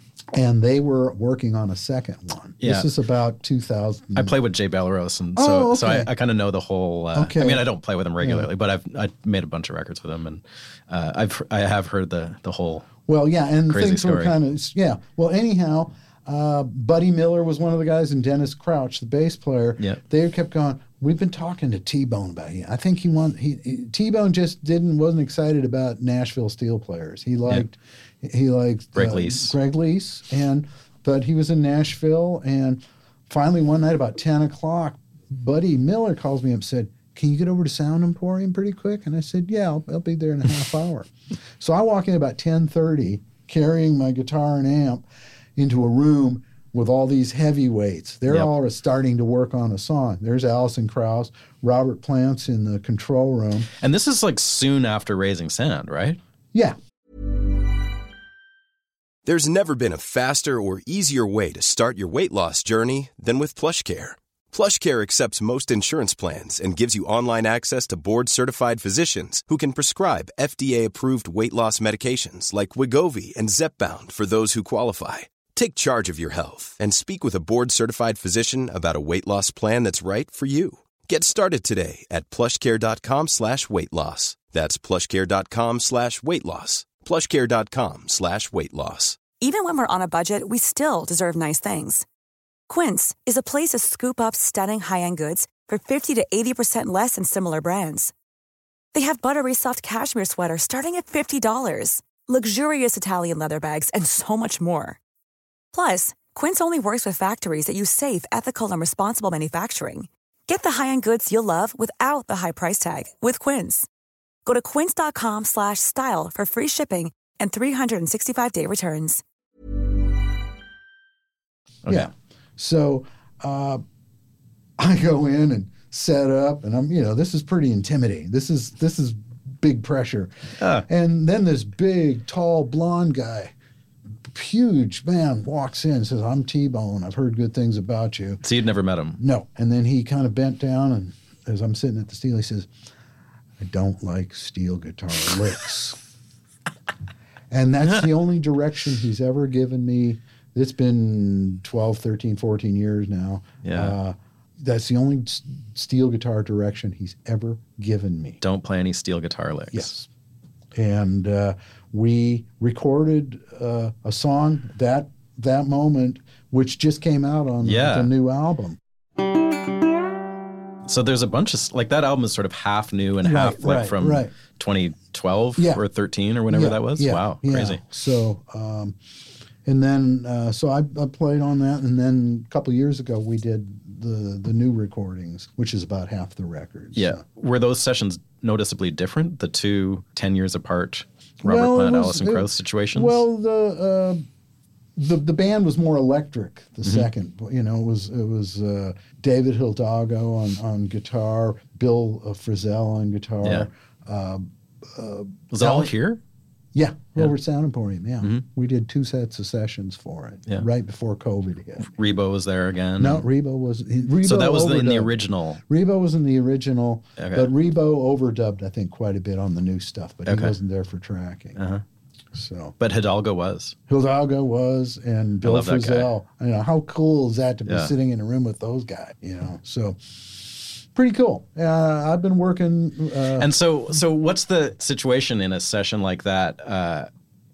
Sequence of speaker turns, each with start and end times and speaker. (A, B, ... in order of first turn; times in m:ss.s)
0:00.3-0:04.3 A
0:02.6-0:02.9 B
0:04.1-0:12.9 B
0:05.3-0:06.1 A
0:07.1-0:08.5 A
0:13.1-0:45.0 A
0:13.7-0:14.4 B
0:28.9-0:29.5 B
0:45.6-0:53.7 A
0:53.8-0:56.2 B
0:59.2-1:29.2 C
1:29.4-1:32.0 D
1:32.7-1:38.1 D
1:38.9-1:45.0 D
1:45.7-1:53.9 D
1:54.4-1:59.2 D
2:01.9-2:03.8 A
2:04.8-2:13.5 A
2:10.6-2:10.8 B
2:14.3-2:18.4 A
2:18.4-2:19.2 B
2:19.2-2:22.7 A
2:23.6-2:26.0 A
2:27.5-2:38.4 A
2:33.6-2:33.9 B
2:38.4-2:40.0 B
2:39.7-2:40.0 A
2:40.7-2:48.8 A
2:47.6-2:48.1 B
2:50.8-2:57.8 B
2:53.2-2:54.3 A
2:55.6-2:55.8 A
2:56.5-2:59.0 A
2:59.6-3:07.2 A
3:06.9-3:13.2 B
3:11.4-3:14.2 A
3:15.0-3:25.9 A
3:23.4-3:23.7 B
3:25.5-3:26.2 B
3:26.7-3:31.9 A
3:31.8-3:33.2 B
3:33.0-3:41.6 A
3:34.2-3:35.6 B
3:37.2-3:37.5 B
3:40.3-3:40.5 B
3:41.6-3:41.8 B
3:42.3-3:42.8 A
3:42.8-3:43.8 B
3:43.9-3:53.5 A
3:45.4-3:46.1 B
3:47.7-3:47.9 B
3:53.4-3:57.1 B